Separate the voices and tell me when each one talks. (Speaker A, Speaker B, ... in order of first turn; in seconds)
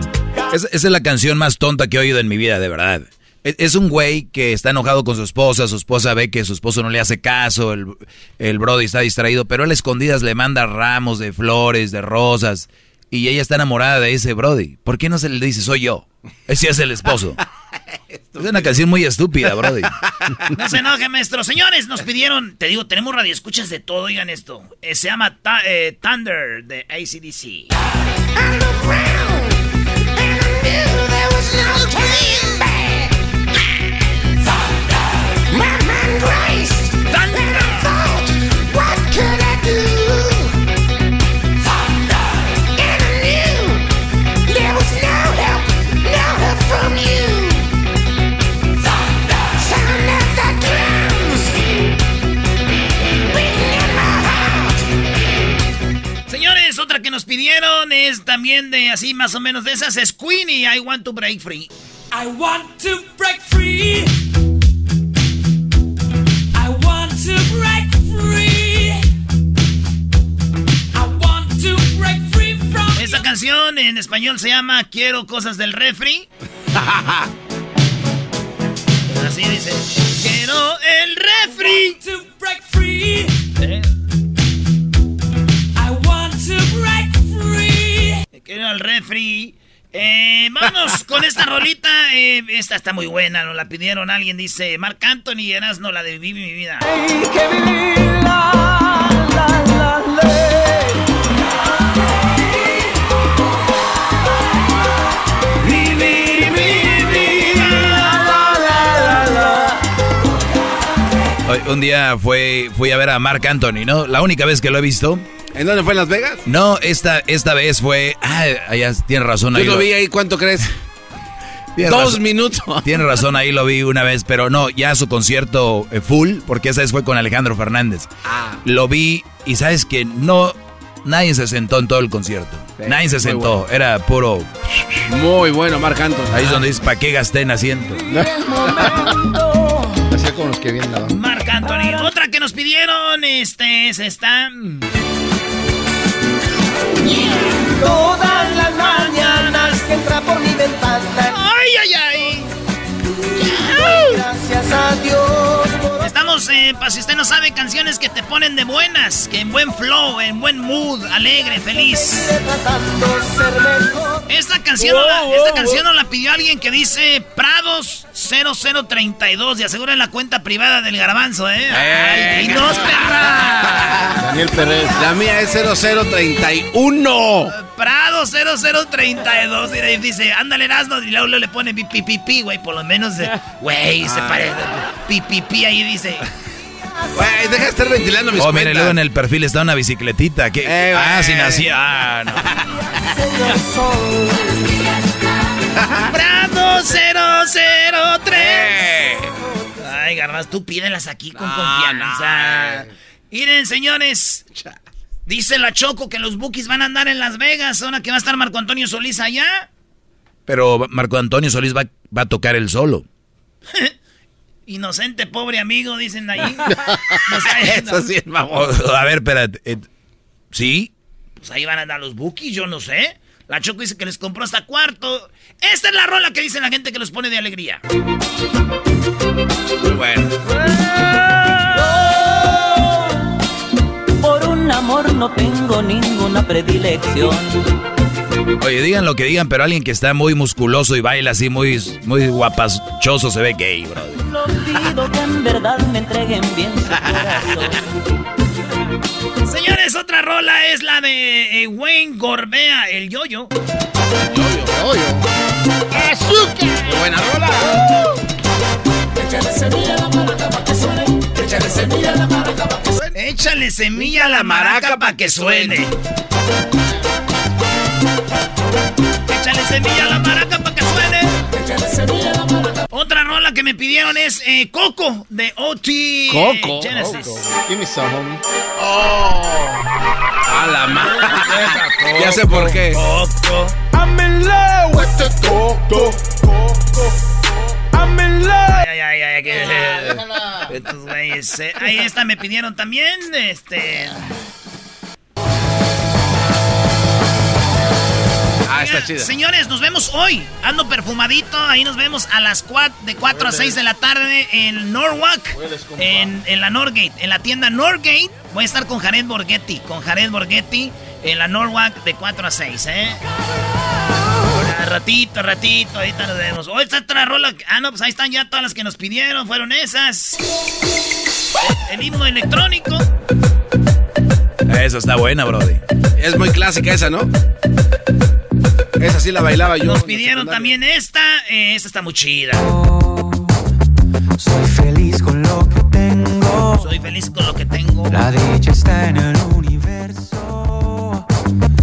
Speaker A: 0.5-17.4, 18.4-19.9, 111.5-115.3, 116.5-119.9, 121.8-122.2, 122.8-128.1, 128.6-134.9, 136.3-138.0, 188.4-192.5, 210.5-213.1, 218.5-219.9, 220.5-220.9, 238.6-244.2, 324.7-325.8
Speaker B: 18.1-18.8, 76.8-77.2, 115.5-116.4, 119.5-120.7, 121.8-123.1, 128.3-128.6, 132.8-133.6, 135.1-136.7, 171.7-173.0, 174.9-177.5, 184.0-184.6, 187.2-189.0, 190.7-191.7, 195.8-196.1, 198.3-199.3, 201.3-202.9, 217.3-218.8, 229.8-230.4, 254.3-254.7, 256.9-257.9, 264.0-265.9, 276.3-277.1, 278.8-279.6, 280.5-283.0, 298.7-299.3, 326.2-327.3, 329.0-330.7
Speaker C: 20.5-27.7, 56.3-61.7, 72.9-76.3, 79.1-82.0, 83.6-83.9, 88.3-96.9, 141.1-144.8, 151.3-152.5, 156.0-162.3, 164.3-174.2, 177.5-186.2, 196.1-198.8, 199.8-204.4, 205.3-209.7, 214.7-218.0, 221.4-227.8, 249.4-253.5, 263.1-265.9, 269.3-271.4, 272.9-277.5, 281.2-283.8, 288.7-294.2, 298.7-313.2, 314.5-320.4, 321.6-323.1, 329.8-332.7, 336.8-338.3
Speaker D: 36.3-36.7, 147.8-151.2, 154.3-155.4, 231.8-232.9, 234.2-237.7, 244.2-247.8
Speaker E: 62.1-64.2, 66.5-69.1, 70.9-73.3, 81.5-83.4, 85.8-88.2, 259.4-260.6, 261.6-262.2, 271.9-272.4
Speaker F: 138.1-139.3, 140.1-141.2, 174.2-175.0, 254.7-255.2, 276.9-278.4, 305.6-306.2
Speaker G: 283.9-285.4, 287.9-288.6